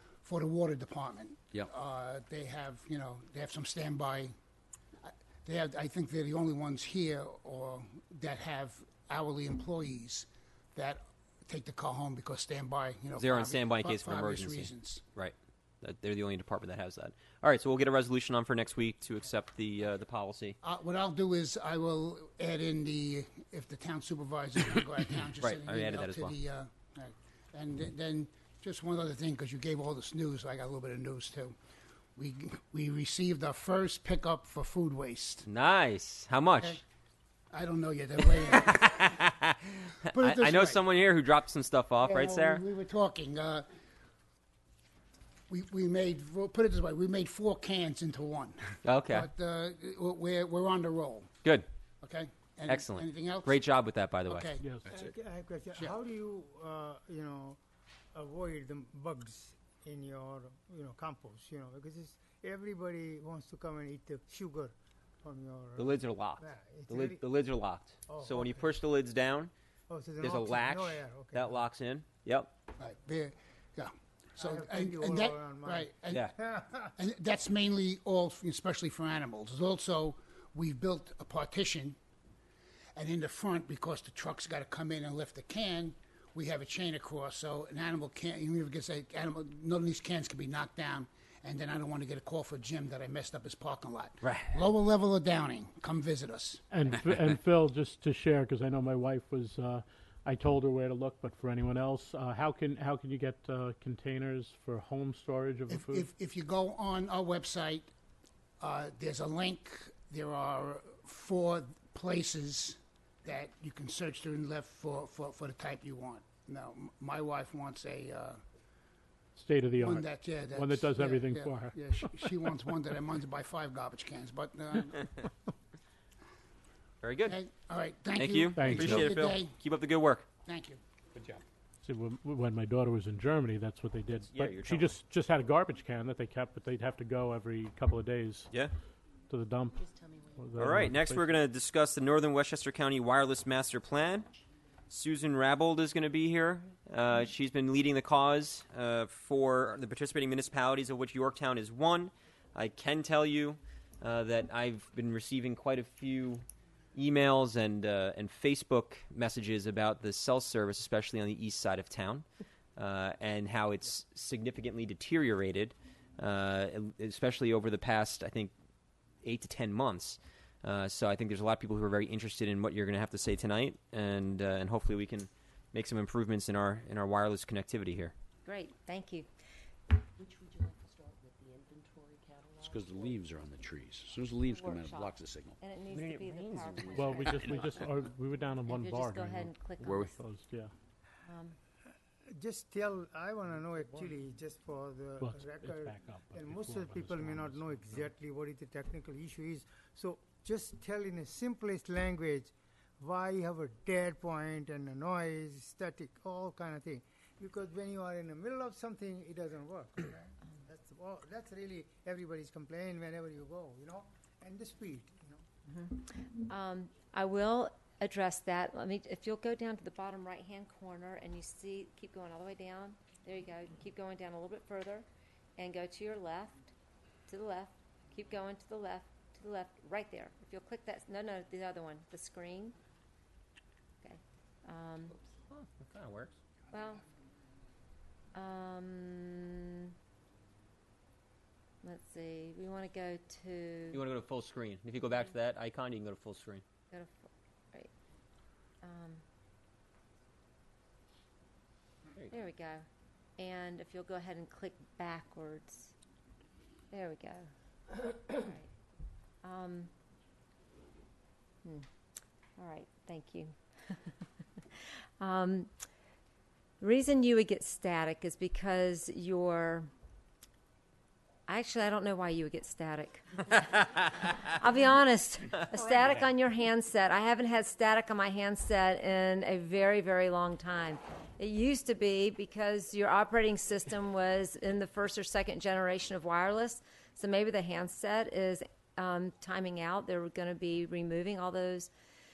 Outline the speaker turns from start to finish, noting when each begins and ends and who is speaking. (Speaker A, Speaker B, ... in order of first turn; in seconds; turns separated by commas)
Speaker A: 0.2-4.3, Speaker A: 5.0-15.0, Speaker B: 13.2-20.6, Speaker A: 20.6-31.6, Speaker B: 25.4-26.3, Speaker A: 32.1-35.5, Speaker B: 35.4-36.8, Speaker A: 37.5-39.1, Speaker B: 38.5-42.6, Speaker A: 40.1-40.8, Speaker A: 42.0-43.7, Speaker A: 45.5-51.3, Speaker B: 48.8-49.3, Speaker A: 52.0-53.6, Speaker B: 52.7-54.5, Speaker A: 54.3-54.6, Speaker C: 54.6-54.9, Speaker D: 54.9-57.6, Speaker D: 58.1-64.7, Speaker D: 65.2-67.2, Speaker B: 65.8-69.5, Speaker D: 68.1-68.7, Speaker D: 69.9-71.6, Speaker B: 70.2-72.5, Speaker A: 72.8-76.3, Speaker D: 74.4-75.9, Speaker B: 76.1-76.3, Speaker A: 77.0-82.0, Speaker A: 82.9-96.9, Speaker B: 94.2-94.6, Speaker C: 96.7-106.1, Speaker A: 105.7-107.9, Speaker A: 108.6-118.4, Speaker C: 119.3-122.5, Speaker A: 119.8-125.1, Speaker B: 127.0-127.3, Speaker A: 127.2-129.5, Speaker B: 128.1-130.2, Speaker C: 128.5-129.1, Speaker A: 130.4-130.8, Speaker C: 131.8-138.5, Speaker B: 134.2-134.9, Speaker C: 139.3-139.8, Speaker E: 139.8-140.4, Speaker C: 140.4-141.4, Speaker B: 140.6-144.3, Speaker B: 144.9-156.4, Speaker B: 156.9-162.2, Speaker B: 162.8-168.5, Speaker B: 169.2-178.1, Speaker F: 178.4-179.3, Speaker E: 180.2-183.1, Speaker G: 182.6-185.6, Speaker F: 184.4-187.9, Speaker B: 185.9-186.6, Speaker G: 186.5-188.1, Speaker C: 186.9-190.7, Speaker F: 188.6-190.1, Speaker G: 189.8-190.2, Speaker F: 191.2-191.6, Speaker D: 192.4-215.4, Speaker C: 193.5-194.2, Speaker C: 195.2-198.1, Speaker F: 215.7-225.1, Speaker F: 225.6-226.7, Speaker F: 227.3-232.8, Speaker F: 234.0-235.1, Speaker B: 235.3-236.3, Speaker F: 236.7-237.0, Speaker F: 238.3-239.9, Speaker F: 241.8-244.0, Speaker B: 243.9-246.6, Speaker F: 246.9-247.9, Speaker F: 248.8-249.2, Speaker F: 252.3-252.8, Speaker F: 253.4-255.9, Speaker F: 256.9-257.5, Speaker F: 258.3-258.7, Speaker F: 259.4-259.9, Speaker F: 262.6-264.0, Speaker F: 265.2-265.7, Speaker F: 266.8-269.9, Speaker F: 271.5-291.9